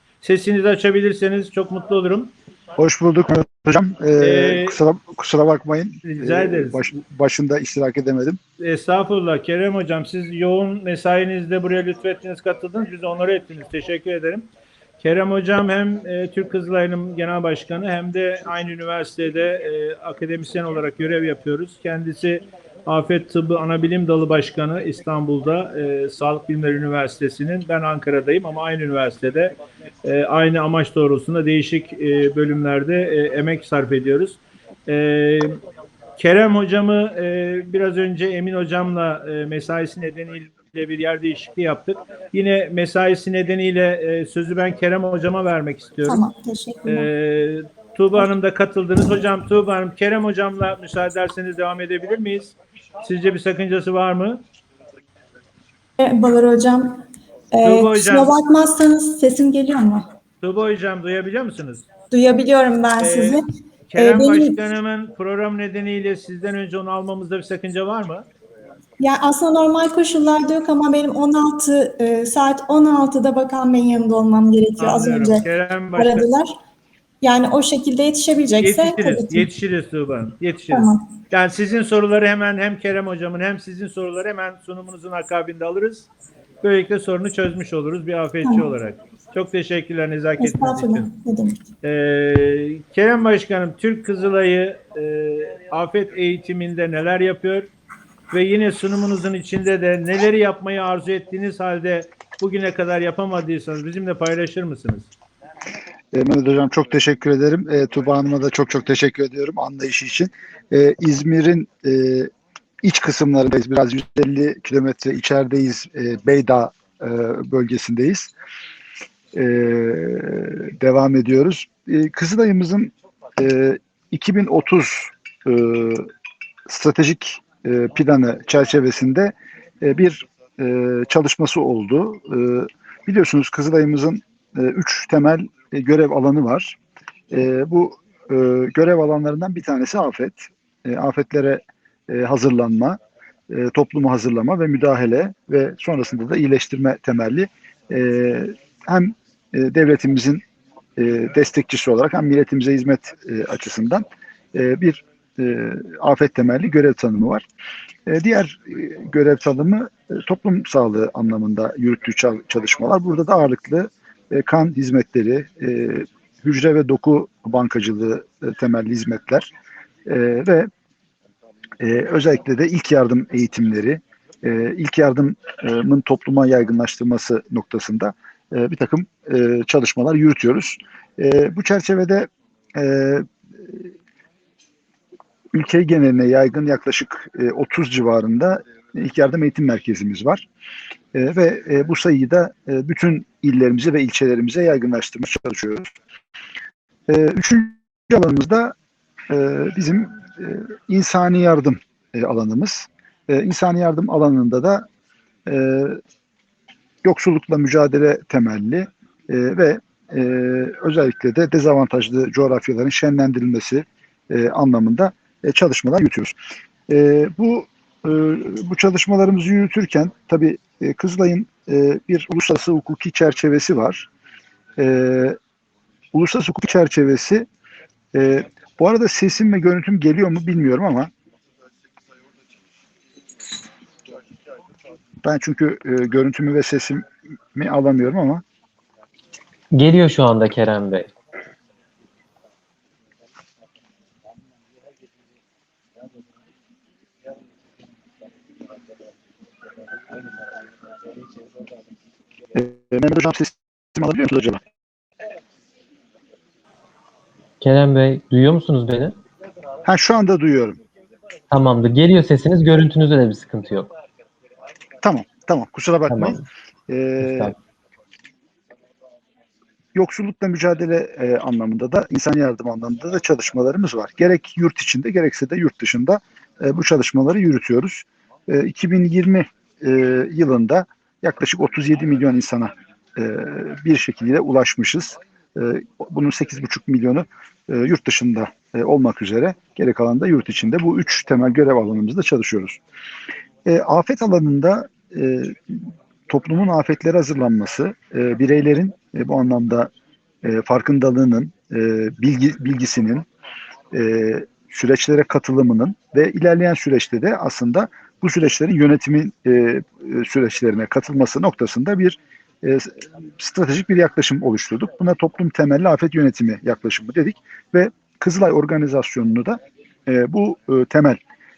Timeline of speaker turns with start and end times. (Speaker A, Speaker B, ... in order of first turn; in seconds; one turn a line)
Speaker A: 0.2-2.3
Speaker B: 2.8-8.4
Speaker A: 4.2-4.8
Speaker A: 6.0-6.8
Speaker A: 8.6-14.4
Speaker A: 15.0-35.6
Speaker A: 36.2-46.2
Speaker C: 46.0-47.1
Speaker A: 46.8-54.4
Speaker C: 56.0-60.1
Speaker A: 57.6-58.4
Speaker A: 60.4-61.9
Speaker C: 62.1-63.4
Speaker A: 63.0-68.2
Speaker C: 64.0-64.6
Speaker C: 69.0-76.5
Speaker A: 74.8-76.3
Speaker C: 77.2-79.5
Speaker A: 78.6-86.1
Speaker C: 80.7-81.0
Speaker A: 86.6-91.1
Speaker C: 88.4-88.7
Speaker C: 90.4-91.6
Speaker A: 91.8-97.7
Speaker A: 98.3-105.1
Speaker B: 106.1-112.3
Speaker B: 112.8-118.3
Speaker B: 119.3-126.1
Speaker B: 126.7-136.8
Speaker B: 137.3-143.0
Speaker B: 143.5-150.4
Speaker B: 151.0-157.4
Speaker B: 158.1-169.5
Speaker B: 170.1-170.7
Speaker B: 171.8-183.9
Speaker B: 185.5-190.4
Speaker B: 191.1-195.9
Speaker B: 197.1-198.7
Speaker B: 199.3-204.8
Speaker B: 205.4-206.0
Speaker B: 207.0-216.3
Speaker B: 216.9-224.1
Speaker B: 224.8-225.4
Speaker B: 226.1-227.4
Speaker B: 228.1-231.1
Speaker B: 235.2-237.0
Speaker B: 237.5-238.4
Speaker D: 239.7-241.1
Speaker B: 252.5-254.6
Speaker D: 257.6-259.2
Speaker B: 259.8-260.8
Speaker D: 261.5-263.9
Speaker B: 265.0-267.5
Speaker D: 266.1-266.4
Speaker D: 267.2-267.6
Speaker B: 269.9-292.8
Speaker B: 293.6-299.9
Speaker B: 300.4-303.2
Speaker B: 303.9-321.2